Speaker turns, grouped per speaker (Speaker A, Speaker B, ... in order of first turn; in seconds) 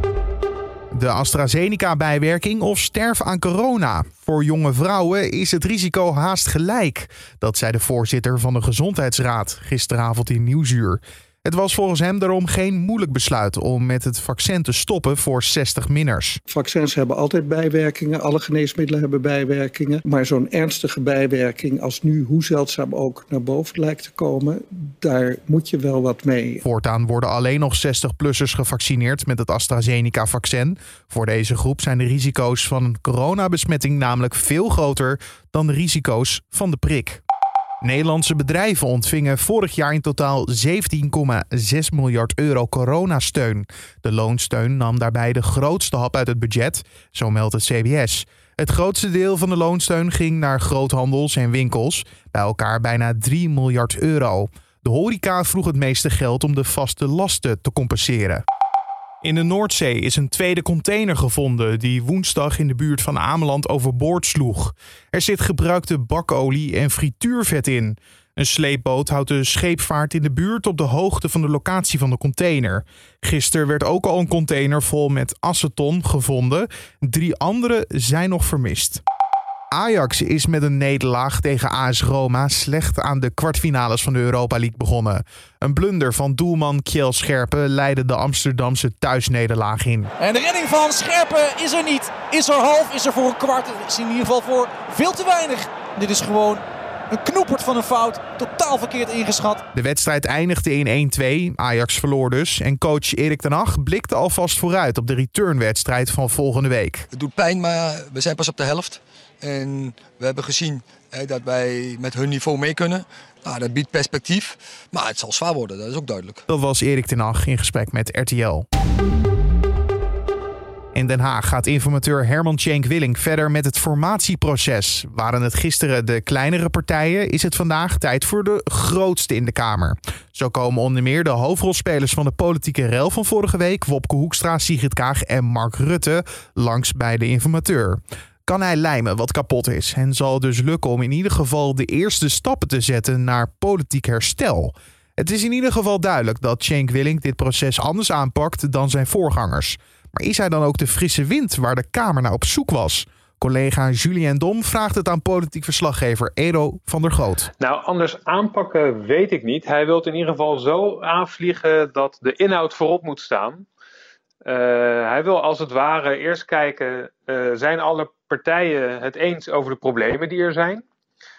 Speaker A: 0.9-16.4, 26.6-37.2, 37.8-58.4, 59.2-79.0, 79.7-90.1, 99.7-107.0, 116.5-118.7, 120.9-157.5
Speaker B: 16.5-26.6
Speaker C: 90.2-99.6
Speaker D: 107.1-116.4
Speaker E: 157.6-163.7, 164.5-170.8